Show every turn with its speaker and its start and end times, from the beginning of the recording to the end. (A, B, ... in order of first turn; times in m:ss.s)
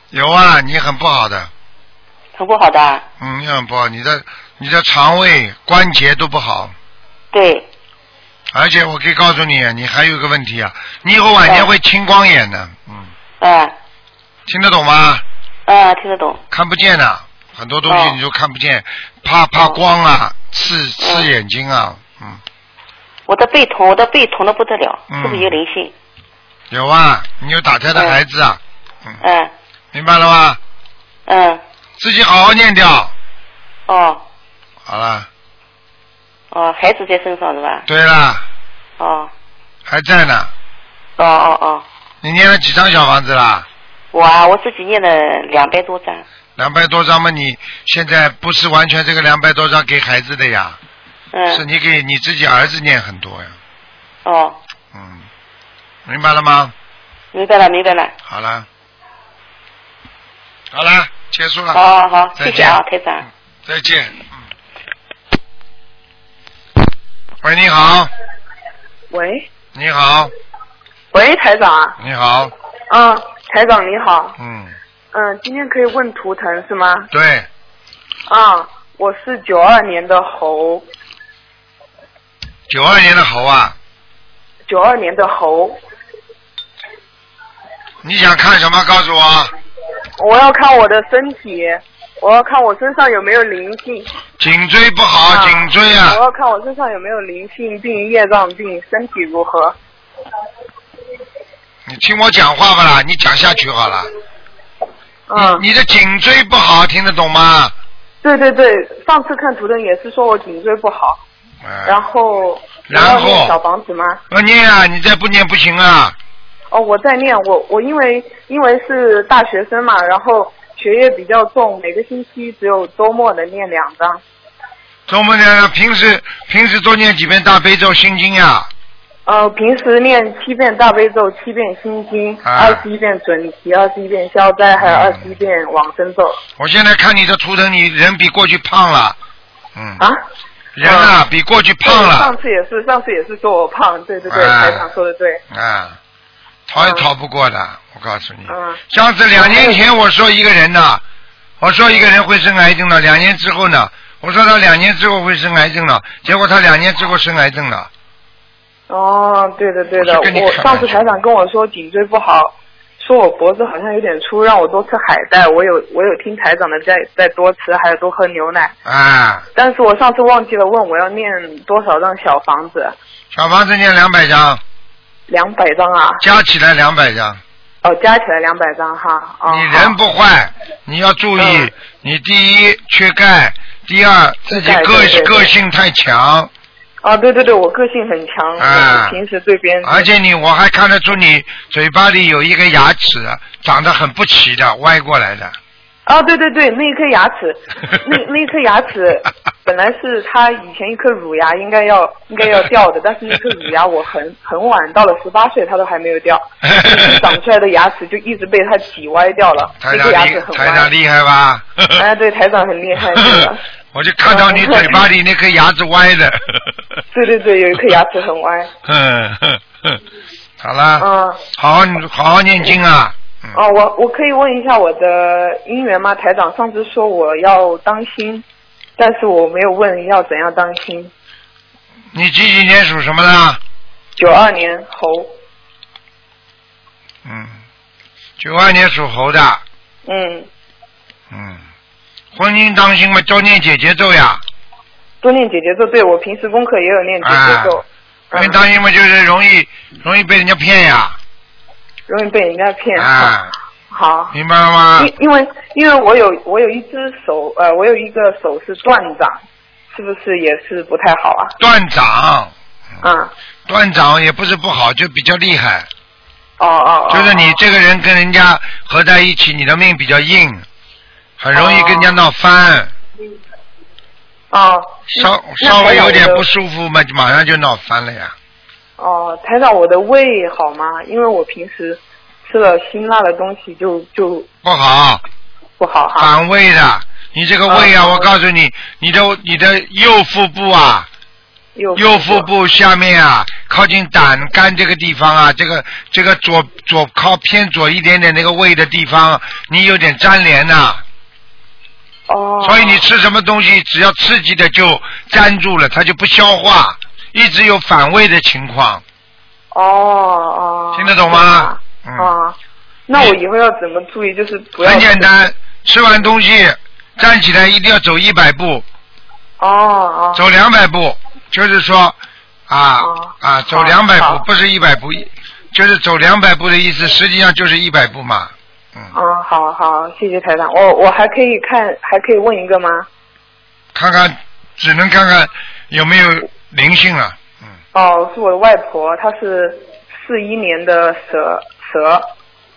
0:00.1-0:01.5 A
0:02.4-0:03.0 B
0:03.2-0:06.7 A
0:07.3-0:07.7 B
0:08.5-0:13.1 A
0:13.4-0:13.8 B
0:14.5-0:15.2 A
0:15.7-0:16.4 B
0:16.5-0:22.4 A
0:17.9-0:18.2 B
0:21.0-0:21.3 B
0:23.3-0:25.9 B
0:25.1-0:25.6 A
0:26.7-0:29.2 A
0:28.0-0:28.2 B
0:29.2-0:29.5 B
0:29.9-0:30.6 A
0:31.3-0:31.6 B
0:32.0-0:33.1 A
0:33.9-0:34.2 B
0:34.9-0:35.3 A
0:36.5-0:37.8 B
0:37.9-0:38.4 A
0:39.0-0:39.3 B
0:39.9-0:40.5 A
0:41.2-0:41.8 B
0:42.2-0:43.7 A
0:44.1-0:46.2 B
0:46.6-0:50.8 A
0:51.3-0:51.6 B
0:51.5-0:53.6 A
0:54.2-0:54.6 B
0:54.9-0:55.2 A
0:56.1-0:56.7 A
0:57.3-0:58.1 B
0:58.3-0:58.7 A
1:00.7-1:01.8 A
1:01.7-1:03.3 B
1:02.4-1:02.8 A
1:03.7-1:04.4 A
1:07.4-1:08.1 A
1:09.1-1:09.5 C
1:09.7-1:10.3 A
1:11.1-1:12.0 C
1:12.0-1:12.5 A
1:12.9-1:14.4 C
1:14.4-1:14.8 A
1:15.1-1:17.1 C
1:17.1-1:17.5 A
1:18.3-1:20.8 C
1:22.7-1:23.8 A
1:24.7-1:25.8 C
1:28.0-1:29.5 A
1:30.2-1:34.1 C
1:34.4-1:36.2 A
1:35.3-1:39.8 C
1:41.9-1:44.1 A
1:45.3-1:45.7 C
1:45.4-1:47.7 A
1:48.2-1:51.2 C
1:51.6-1:52.0 A
1:51.8-1:54.2 C
1:52.9-1:53.6 A
1:54.3-1:56.2 A
1:56.7-2:04.2 C
2:05.1-2:08.7 A
2:09.3-2:16.4 C
2:12.4-2:12.8 A
2:14.8-2:15.3 A
2:16.6-2:19.2 A
2:19.8-2:20.0 A
2:20.8-2:22.3 A
2:20.8-2:21.2 C
2:21.8-2:25.4 C
2:24.3-2:24.9 A
2:25.5-2:26.0 A
2:26.7-2:31.0 A
2:26.8-2:27.1 C
2:28.5-2:28.8 C
2:29.4-2:29.8 C
2:31.6-2:37.9 A
2:38.9-2:48.7 C
2:40.0-2:41.0 A
2:48.8-2:49.5 A
2:49.6-2:53.0 C
2:53.3-2:54.6 A
2:55.3-2:56.2 C
2:56.2-2:57.4 A
2:57.8-3:00.0 C
2:59.5-3:06.5 A
3:01.4-3:01.7 C
3:04.5-3:05.5 C
3:07.0-3:10.1 C
3:08.6-3:09.2 A
3:09.8-3:15.6 A
3:16.1-3:30.9 C
3:26.7-3:27.2 A
3:29.8-3:32.0 A
3:32.0-3:33.6 C
3:33.9-3:36.8 A
3:34.3-3:35.1 C
3:37.1-3:38.7 C
3:38.8-3:40.0 A
3:40.6-3:43.6 A
3:41.0-3:41.4 C
3:43.5-3:48.4 C
3:49.0-3:51.1 C
3:52.1-3:53.6 A
3:54.2-3:55.3 C
3:57.2-3:57.6 A
3:58.4-3:59.6 A
4:00.1-4:00.5 C
4:01.3-4:01.6 A
4:02.3-4:04.4 A
4:05.2-4:08.6 C
4:07.2-4:07.8 A
4:08.3-4:11.2 A
4:12.1-4:13.4 C
4:13.0-4:13.5 A
4:13.9-4:14.4 C
4:14.3-4:15.1 A
4:15.0-4:19.4 C
4:19.9-4:21.6 C
4:21.6-4:22.5 A
4:23.0-4:23.3 C
4:23.7-4:25.9 A
4:26.6-4:27.6 C
4:27.1-4:30.7 A
4:31.4-4:32.9 A
4:31.5-4:32.2 C
4:34.5-4:36.5 C
4:35.1-4:38.4 A
4:39.0-4:44.5 C
4:44.6-4:45.2 A
4:45.8-4:46.3 C
4:46.2-4:51.1 A
4:47.7-4:48.3 C
4:51.8-4:52.5 C
4:52.0-5:01.0 A
5:02.3-5:03.0 C
5:02.6-5:09.0 A
5:09.7-5:12.6 C
5:11.0-5:12.3 A
5:13.1-5:15.3 C
5:14.8-5:18.8 A
5:19.6-5:20.4 C
5:20.4-5:22.2 A
5:22.7-5:29.1 A
5:23.0-5:24.4 C
5:29.1-5:33.1 C
5:33.9-5:37.7 A
5:37.9-5:42.3 C